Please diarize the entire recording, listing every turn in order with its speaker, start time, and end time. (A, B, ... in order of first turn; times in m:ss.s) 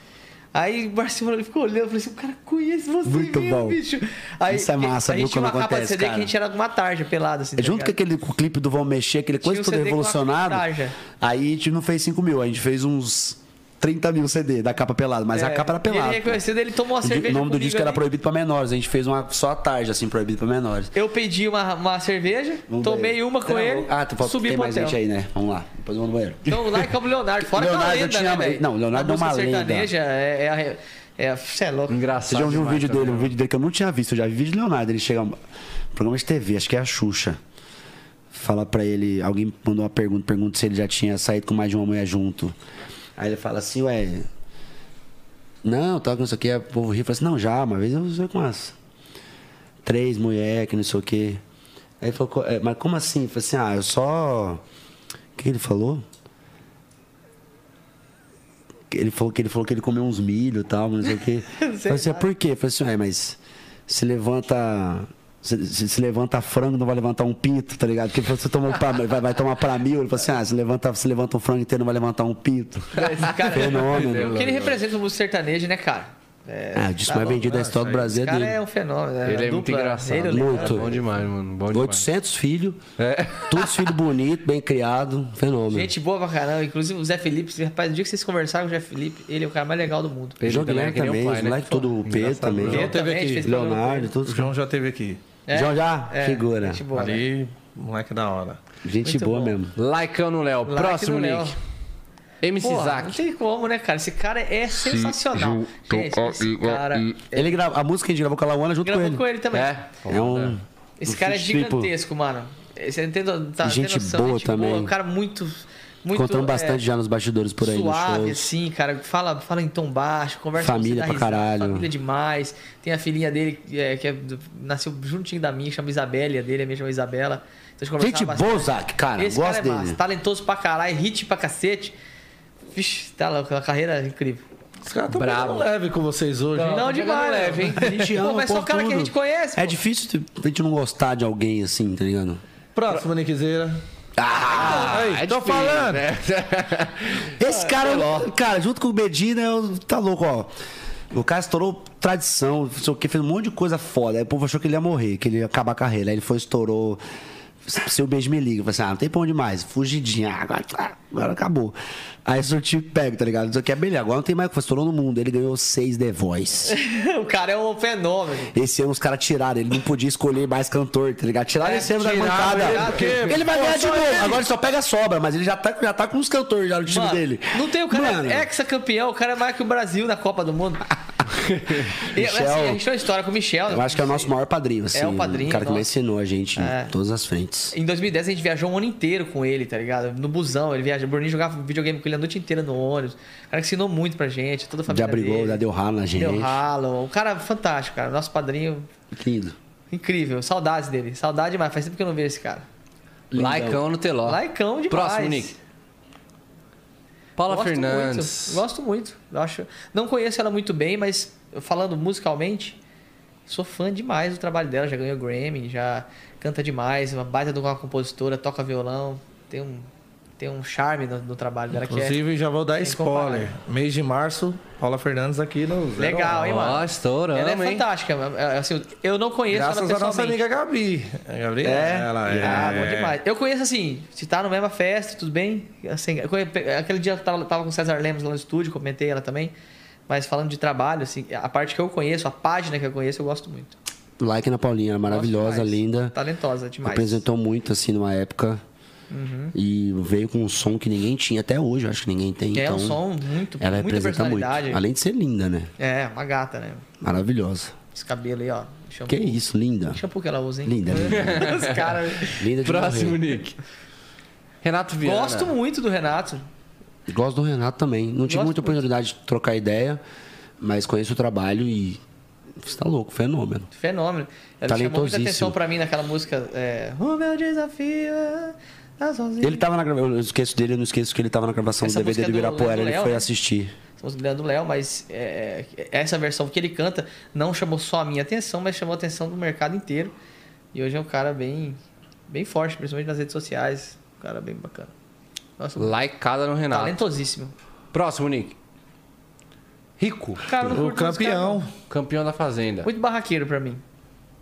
0:00.5-0:07.9 A
0:03.0-0:03.8 B
0:04.5-0:06.3 B
0:07.6-0:16.4 B
0:09.4-0:11.0 A
0:15.3-0:18.0 A
0:17.0-0:20.9 B
0:20.9-0:25.0 A
0:22.7-0:26.9 B
0:26.5-0:32.0 A
0:27.4-0:29.9 B
0:31.9-0:33.3 C
0:32.3-0:35.3 B
0:35.9-0:37.4 B
0:38.3-0:42.5 B
0:43.2-0:44.3 B
0:45.6-0:48.7 B
0:49.8-0:51.4 B
0:52.0-0:54.6 B
0:55.4-0:56.0 B
0:58.9-1:14.4 B
1:01.6-1:02.3 A
1:12.9-1:21.0 A
1:13.0-1:14.8 C
1:16.7-1:18.6 B
1:19.2-1:22.0 C
1:20.3-1:21.0 B
1:21.7-1:22.8 B
1:23.0-1:24.0 C
1:23.3-1:25.9 B
1:25.7-1:30.4 A
1:30.4-1:32.9 C
1:30.4-1:34.5 B
1:32.6-1:33.5 D
1:32.6-1:34.1 A
1:34.2-1:35.2 D
1:35.5-1:37.2 A
1:35.5-1:36.8 B
1:36.9-1:38.6 D
1:38.8-1:39.7 B
1:39.0-1:39.5 A
1:39.8-1:41.6 C
1:40.6-1:41.6 A
1:42.4-1:43.2 C
1:42.6-1:47.6 A
1:45.8-1:49.2 B
1:48.8-1:49.7 A
1:49.5-1:50.6 C
1:50.1-1:51.9 B
1:51.0-1:56.8 A
1:53.6-1:54.9 B
1:56.1-1:58.5 B
1:57.6-2:11.9 A
2:00.6-2:01.9 B
2:08.0-2:10.0 B
2:12.7-2:14.4 A
2:14.8-2:17.0 D
2:15.1-2:15.7 C
2:16.6-2:17.9 C
2:16.6-2:19.8 A
2:17.8-2:22.4 B
2:22.7-2:23.8 D
2:24.2-2:25.0 B
2:24.5-2:28.3 C
2:24.6-2:26.0 D
2:27.4-2:30.5 B
2:27.4-2:28.0 A
2:31.1-2:37.0 B
2:37.6-2:46.8 B
2:46.7-2:48.5 A
2:48.5-2:58.5 B
2:51.6-2:53.4 A
2:52.0-2:54.4 D
2:56.9-3:00.9 A
3:01.7-3:02.8 B
3:01.9-3:04.3 A
3:03.7-3:07.7 B
3:04.9-3:05.9 A
3:06.6-3:06.9 A
3:07.7-3:15.6 A
3:14.9-3:16.6 B
3:16.1-3:18.9 A
3:19.1-3:19.6 B
3:19.9-3:22.6 A
3:23.3-3:23.8 B
3:23.3-3:25.6 C
3:24.2-3:25.6 A
3:27.4-3:28.6 C
3:27.5-3:32.8 A
3:33.5-3:39.9 A
3:40.4-3:42.2 A
3:41.7-3:46.4 D
3:42.8-3:43.5 A
3:46.0-3:50.4 A
3:46.3-3:47.8 C
3:49.5-3:53.1 D
3:51.6-3:52.9 B
3:52.3-3:59.5 A
4:00.1-4:03.8 A
4:04.2-4:06.1 B
4:05.1-4:07.2 A
4:06.8-4:08.6 B
4:09.1-4:09.5 A
4:09.5-4:13.0 B
4:12.5-4:14.8 A
4:13.6-4:15.7 B
4:15.8-4:16.8 A
4:17.0-4:17.7 B
4:17.9-4:19.4 A
4:19.1-4:20.0 B
4:19.9-4:22.4 A
4:20.6-4:21.5 B
4:21.0-4:23.6 C
4:22.4-4:23.2 B
4:24.6-4:25.5 C
4:25.0-4:26.4 A
4:27.1-4:30.0 B
4:28.3-4:28.8 A
4:30.6-4:32.0 B
4:32.6-4:33.7 B
4:33.7-4:39.6 A
4:34.7-4:35.6 B
4:39.4-4:43.7 B
4:41.8-4:43.3 A
4:44.0-4:50.1 A
4:50.7-4:54.9 A
4:55.6-4:55.9 A
4:55.8-4:57.0 C
4:56.7-4:57.5 A
4:57.9-4:58.6 C
5:00.0-5:00.5 C
5:00.4-5:01.6 A
5:00.6-5:01.7 D
5:01.9-5:02.9 C
5:02.8-5:03.8 A